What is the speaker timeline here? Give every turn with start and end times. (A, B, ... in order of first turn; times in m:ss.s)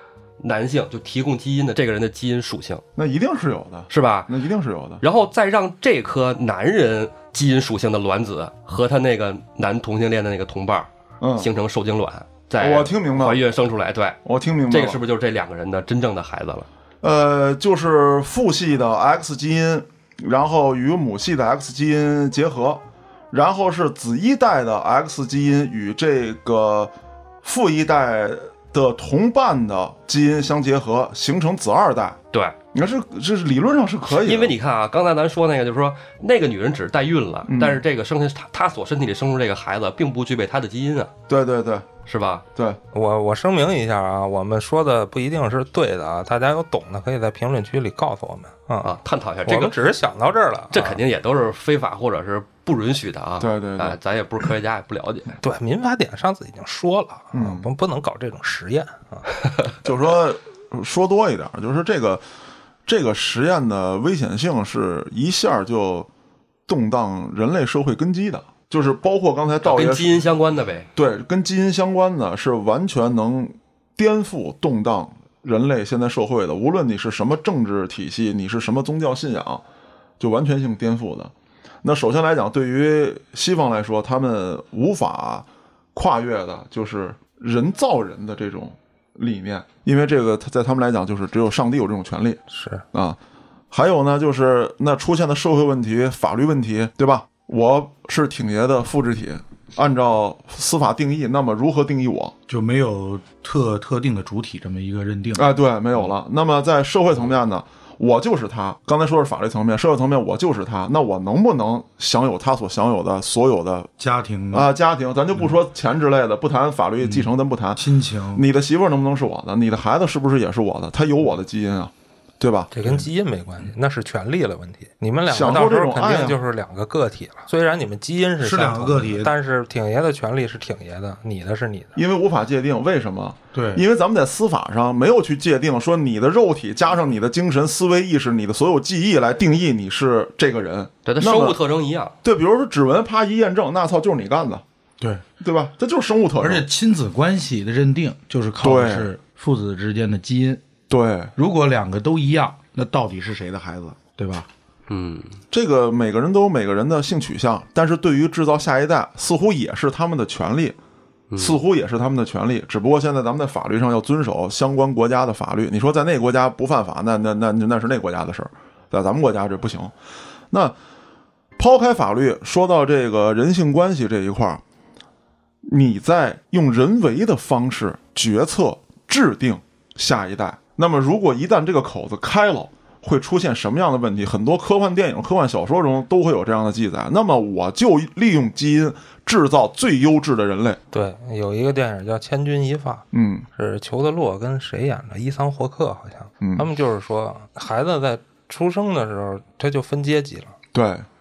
0:00.4-0:02.8 A
0:03.0-0:05.0 B
0:03.9-0:04.3 A
0:05.0-0:16.7 A
0:11.2-0:11.5 B
0:12.6-0:13.4 B
0:14.2-0:15.0 B
0:17.0-0:26.9 B
0:27.4-0:32.2 B
0:32.7-0:34.5 B
0:34.1-0:41.1 A
0:37.5-0:37.8 B
0:41.3-0:41.9 B
0:42.1-0:42.4 A
0:42.9-0:51.0 C
0:48.8-0:49.8 A
0:50.7-0:55.4 A
0:53.4-0:54.0 B
0:55.4-0:59.3 C
0:57.3-0:57.7 B
0:59.8-1:02.2 B
1:02.9-1:06.1 B
1:06.7-1:10.2 B
1:09.6-1:10.9 A
1:11.0-1:19.6 B
1:20.2-1:21.3 B
1:21.8-1:32.4 B
1:32.5-1:32.8 C
1:32.9-1:33.2 B
1:33.7-1:42.3 B
1:42.5-1:45.5 D
1:45.4-1:53.9 B
1:54.0-1:54.7 D
1:54.5-2:02.7 B
1:57.0-1:58.4 D
2:02.7-2:12.0 C
2:05.3-2:06.4 B
2:08.4-2:09.3 D
2:12.0-2:21.6 B
2:13.5-2:13.8 D
2:21.1-2:22.1 A
2:22.2-2:24.6 B
2:25.0-2:25.2 D
2:25.4-2:26.7 B
2:26.4-2:30.6 D
2:28.6-2:29.1 B
2:30.9-2:31.3 B
2:31.4-2:34.5 D
2:34.9-2:35.4 A
2:35.5-2:40.8 B
2:41.3-2:41.6 A
2:41.4-2:49.9 B
2:51.6-2:54.6 B
2:55.7-3:10.8 B
3:10.9-3:20.5 C
3:13.1-3:13.5 B
3:16.4-3:16.7 B
3:20.7-3:21.0 B